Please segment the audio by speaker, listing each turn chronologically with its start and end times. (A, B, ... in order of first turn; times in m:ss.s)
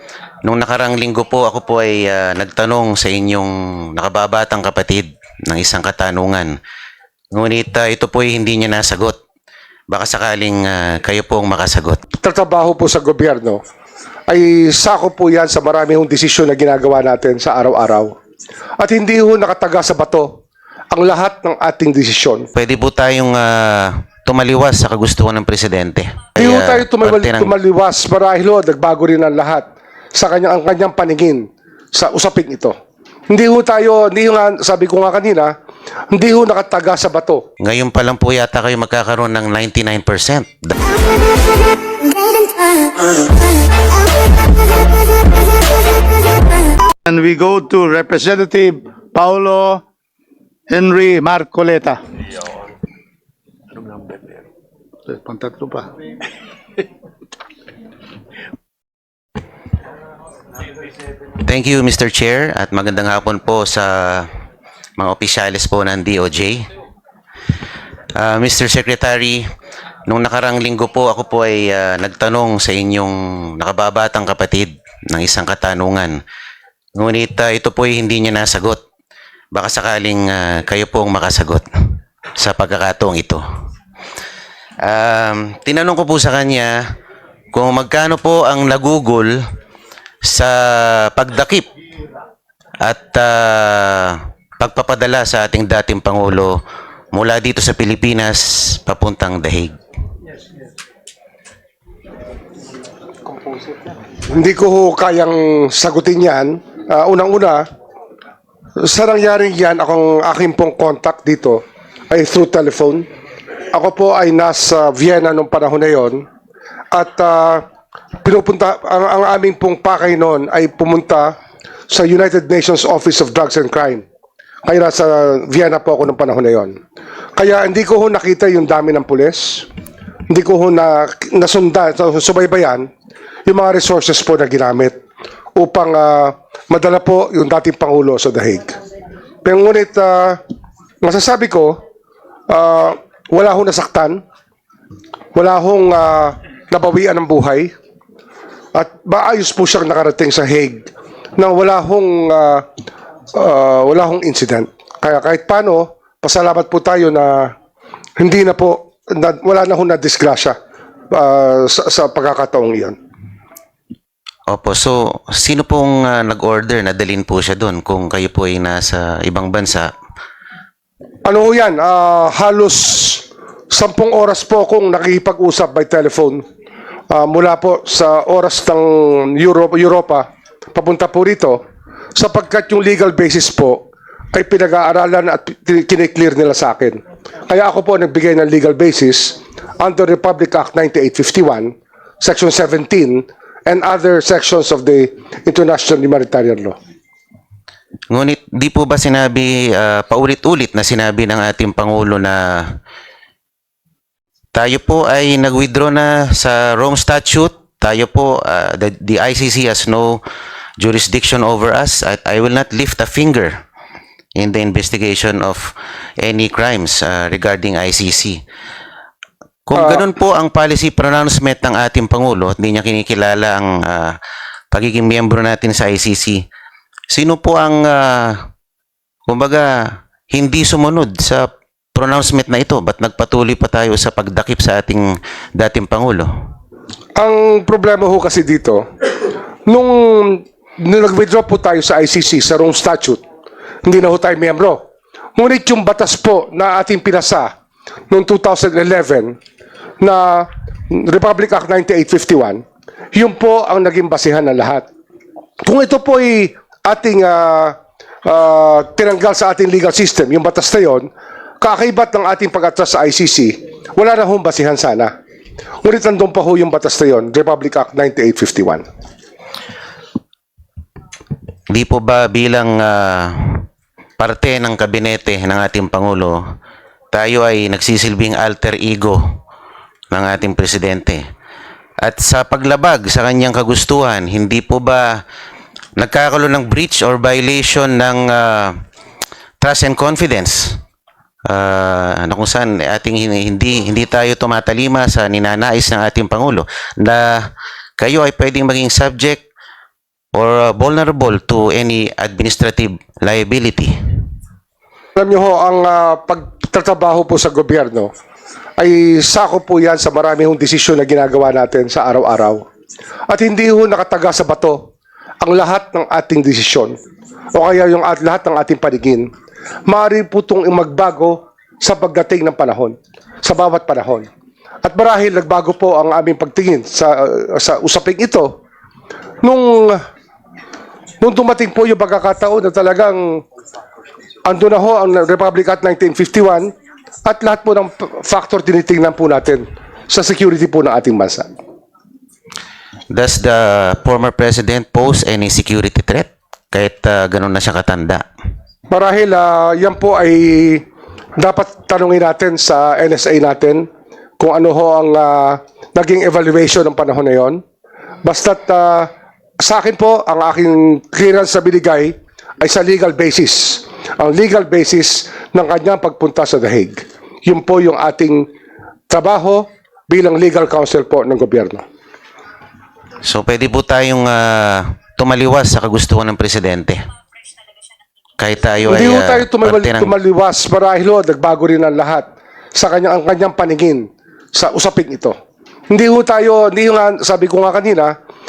0:00.4-0:06.5 A
0:07.3-0:09.2 A
0:09.9-0:12.0 A
0:12.2-0:13.6 B
0:14.3-0:18.1 B
0:18.8-0:20.3 B
0:20.9-0:22.5 B
0:22.5-0:27.5 A
0:26.4-0:32.7 B
0:33.3-0:35.5 B
0:36.1-0:37.4 B
0:37.6-0:40.7 A
0:47.0-0:49.8 C
0:50.7-0:52.0 C
0:55.1-0:55.9 C
1:01.4-1:04.3 A
1:05.0-1:06.6 A
1:08.2-1:09.4 A
1:10.1-1:16.2 A
1:17.0-1:18.8 A
1:19.5-1:21.6 A
1:22.4-1:23.4 A
1:24.8-1:26.8 A
1:27.5-1:29.4 A
1:30.2-1:31.7 A
1:32.8-1:36.6 A
1:37.1-1:39.8 A
1:44.3-1:47.6 B
1:48.8-1:53.1 B
1:53.7-1:56.2 B
1:56.9-1:57.6 B
1:58.2-2:01.3 B
2:01.9-2:04.0 B
2:04.6-2:06.8 B
2:07.4-2:09.7 B
2:10.3-2:12.9 B
2:13.4-2:15.0 B
2:15.6-2:18.8 B
2:19.4-2:20.4 B
2:21.0-2:21.8 B
2:22.5-2:24.2 B
2:25.3-2:27.7 B
2:28.7-2:32.6 B
2:33.3-2:37.5 B
2:38.2-2:40.6 B
2:41.1-2:42.9 B
2:44.5-2:49.9 A
2:51.2-2:56.4 B
2:57.1-3:01.6 B
3:02.2-3:16.8 B
3:18.1-3:22.7 A
3:24.5-3:30.2 A
3:30.8-3:33.5 A
3:34.4-3:35.7 A
3:36.2-3:38.4 A
3:39.6-3:44.1 A
3:39.7-3:40.0 B
3:44.7-3:46.4 A
3:47.1-3:48.4 A
3:49.3-3:49.7 A
3:50.3-3:56.3 A
3:57.2-3:58.8 B
3:59.7-4:03.2 B
4:03.8-4:04.8 B
4:05.4-4:07.5 B
4:08.1-4:09.3 B
4:10.0-4:12.6 B
4:13.1-4:14.8 B
4:15.6-4:21.1 B
4:21.6-4:25.1 B
4:25.8-4:28.8 B
4:31.7-4:33.6 A
4:34.2-4:36.4 A
4:37.1-4:39.2 A
4:40.1-4:41.2 A
4:42.0-4:45.2 A
4:46.0-4:48.7 A
4:49.6-4:50.8 A
4:51.5-4:57.4 A
4:58.0-4:59.4 A
5:00.3-5:03.9 A
5:05.2-5:08.1 B
5:08.8-5:12.6 B
5:13.3-5:14.8 B
5:15.4-5:16.9 B
5:17.5-5:19.3 B
5:19.9-5:24.3 B
5:24.8-5:28.5 B
5:29.4-5:30.0 B
5:31.2-5:33.4 B
5:34.4-5:36.7 B
5:37.3-5:41.5 B
5:43.1-5:48.2 A
5:48.9-5:50.8 B
5:51.4-5:53.8 B
5:54.4-5:57.6 B
5:58.2-5:59.1 B
5:59.6-6:08.5 B
6:09.1-6:11.8 B
6:13.2-6:17.0 A
6:18.4-6:20.1 A
6:18.8-6:25.3 B
6:25.9-6:28.1 B